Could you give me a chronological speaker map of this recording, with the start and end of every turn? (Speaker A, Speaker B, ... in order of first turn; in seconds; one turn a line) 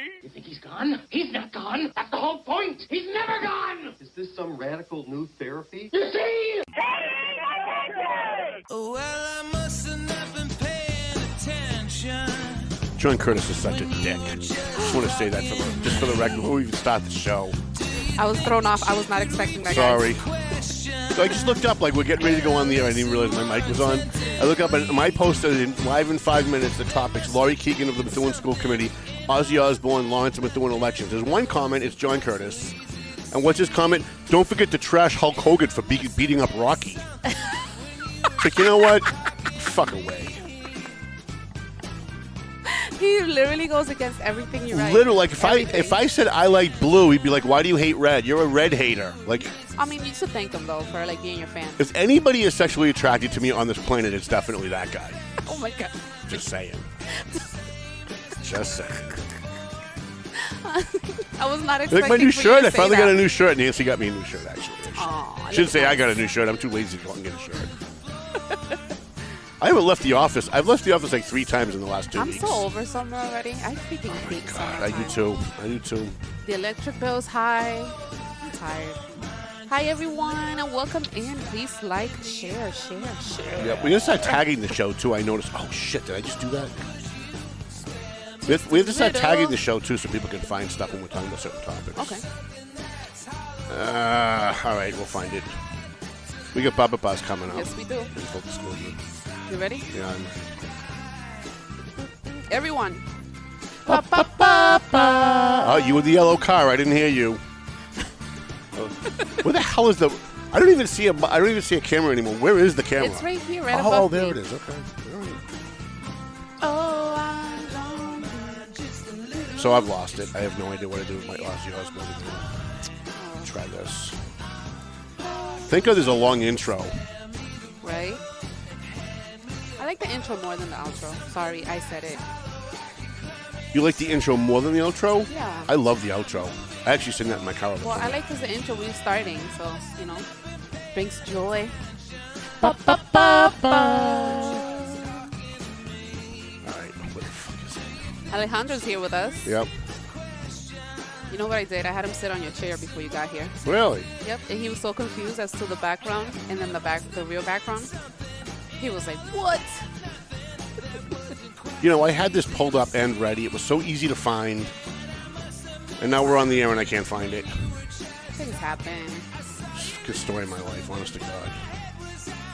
Speaker A: 0.2-3.9
Speaker B: 4.0-6.0
Speaker A: 6.0-6.7
Speaker C: 8.7-12.7
Speaker D: 13.0-17.6
Speaker E: 18.1-20.1
Speaker D: 19.6-20.2
Speaker C: 20.4-21.1
Speaker D: 21.1-32.8
Speaker D: 33.3-37.0
Speaker D: 38.4-40.5
Speaker E: 42.6-46.0
Speaker D: 44.7-49.5
Speaker E: 49.7-51.9
Speaker D: 51.8-55.2
Speaker E: 55.5-56.0
Speaker D: 56.3-56.9
Speaker D: 58.4-59.2
Speaker E: 60.3-63.2
Speaker D: 61.9-67.7
Speaker E: 65.0-66.2
Speaker D: 69.6-72.7
Speaker E: 72.1-75.3
Speaker D: 74.1-76.2
Speaker E: 76.4-84.4
Speaker D: 83.6-86.9
Speaker E: 88.5-89.6
Speaker D: 88.5-92.2
Speaker E: 92.0-92.2
Speaker D: 93.7-95.6
Speaker D: 96.5-99.0
Speaker E: 97.5-98.1
Speaker E: 99.5-99.9
Speaker D: 99.9-100.4
Speaker E: 102.3-103.0
Speaker E: 103.9-106.2
Speaker D: 103.9-107.4
Speaker D: 109.4-115.5
Speaker E: 113.0-114.4
Speaker E: 116.6-118.7
Speaker D: 119.5-122.7
Speaker E: 123.1-123.5
Speaker D: 123.4-124.2
Speaker D: 125.5-127.0
Speaker E: 127.8-128.2
Speaker E: 129.8-132.2
Speaker D: 133.7-138.2
Speaker E: 135.3-135.7
Speaker E: 137.8-140.3
Speaker E: 140.9-141.8
Speaker D: 142.6-144.8
Speaker E: 142.6-145.1
Speaker D: 146.6-147.9
Speaker E: 148.3-149.5
Speaker D: 149.4-149.7
Speaker E: 151.3-153.6
Speaker D: 153.6-154.1
Speaker E: 154.2-157.9
Speaker E: 158.8-159.9
Speaker D: 161.8-164.7
Speaker D: 166.0-167.5
Speaker E: 168.3-169.3
Speaker D: 169.7-171.6